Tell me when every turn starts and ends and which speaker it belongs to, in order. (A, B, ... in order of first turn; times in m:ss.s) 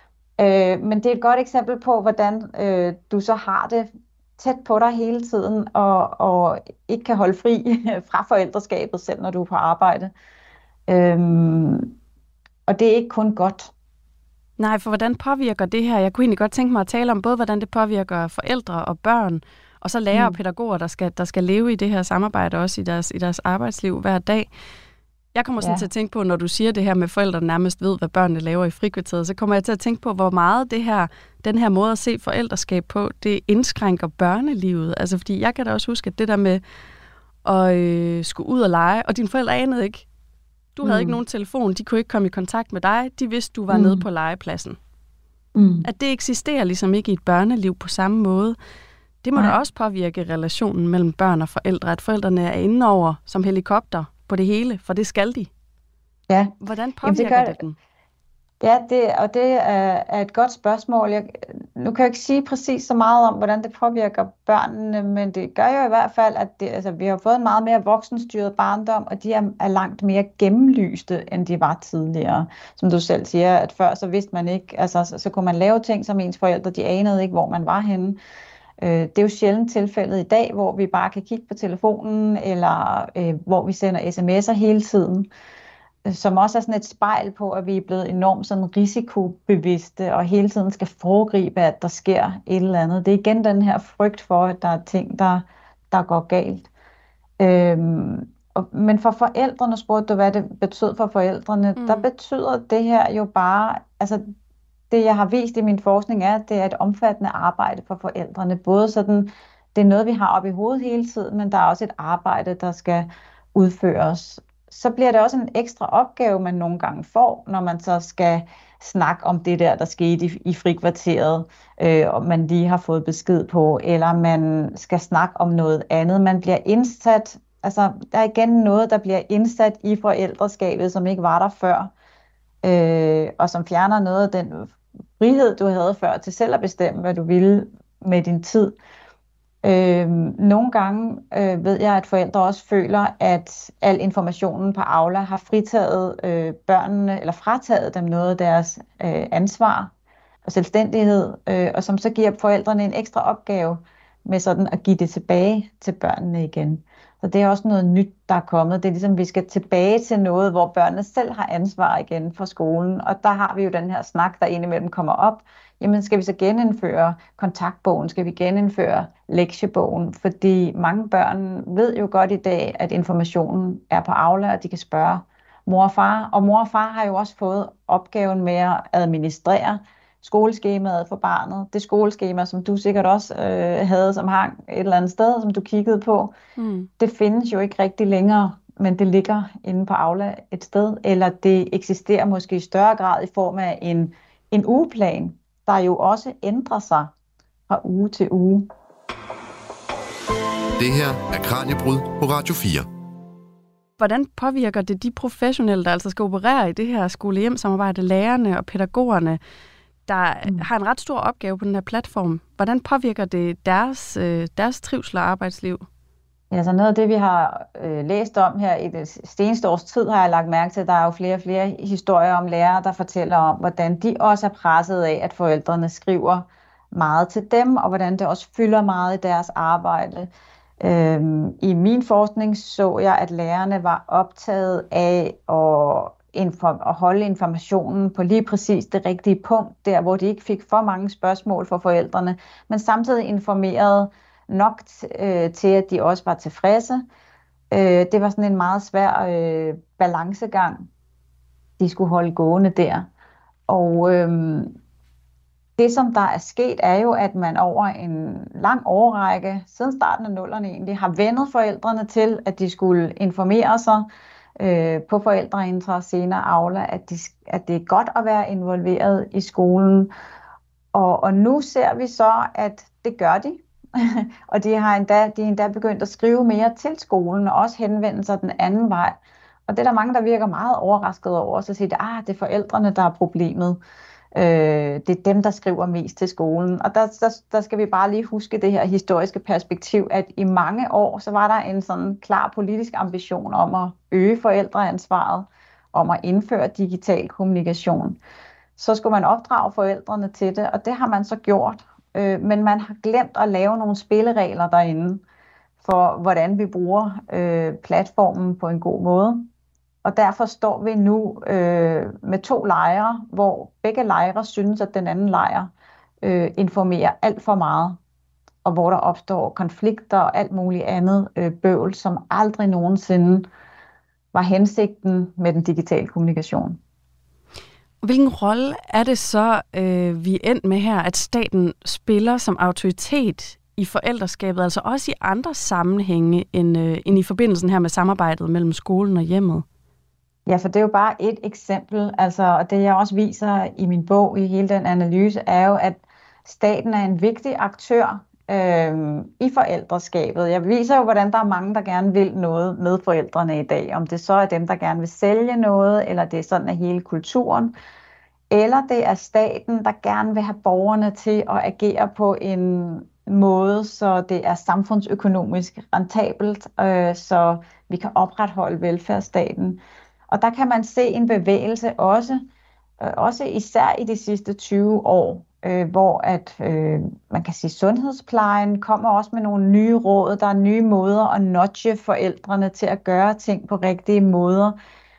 0:00.4-0:10.1 A
0:10.9-0:11.9 A
0:12.7-0:13.7 A
0:14.6-0:24.5 B
0:25.4-0:36.6 B
0:25.6-0:25.9 A
0:37.4-0:40.0 B
0:40.8-0:44.8 B
0:40.8-0:41.2 A
0:43.7-0:44.1 A
0:45.6-0:45.9 A
0:45.8-0:48.6 B
0:49.2-0:55.5 B
0:56.3-0:57.6 A
0:56.6-0:57.7 B
0:58.6-1:18.2 A
1:18.8-1:25.3 A
1:26.1-1:36.7 A
1:37.4-1:44.2 A
1:41.8-1:42.0 B
1:44.9-2:11.9 A
2:12.6-2:18.7 A
2:19.6-2:29.9 A
2:30.5-3:06.3 A
3:06.6-3:06.9 B
3:07.0-3:17.1 A
3:17.7-3:18.7 A
3:20.8-3:22.9 C
3:24.0-3:29.4 B
3:30.1-3:35.9 B
3:36.5-3:50.3 A
3:50.8-4:07.0 A
4:07.7-4:10.9 A
4:11.8-4:13.1 A
4:13.7-4:14.8 A
4:15.8-4:24.1 A
4:24.6-4:30.1 A
4:30.9-4:43.8 A
4:44.4-4:58.2 A
4:58.8-5:05.2 A
5:05.8-5:09.5 A
5:10.0-5:15.7 A
5:16.2-5:18.0 A
5:18.6-5:23.5 A
5:24.3-5:26.8 A
5:28.0-5:39.6 B
5:40.5-5:57.7 A
5:58.5-6:12.4 A
6:13.0-6:24.8 A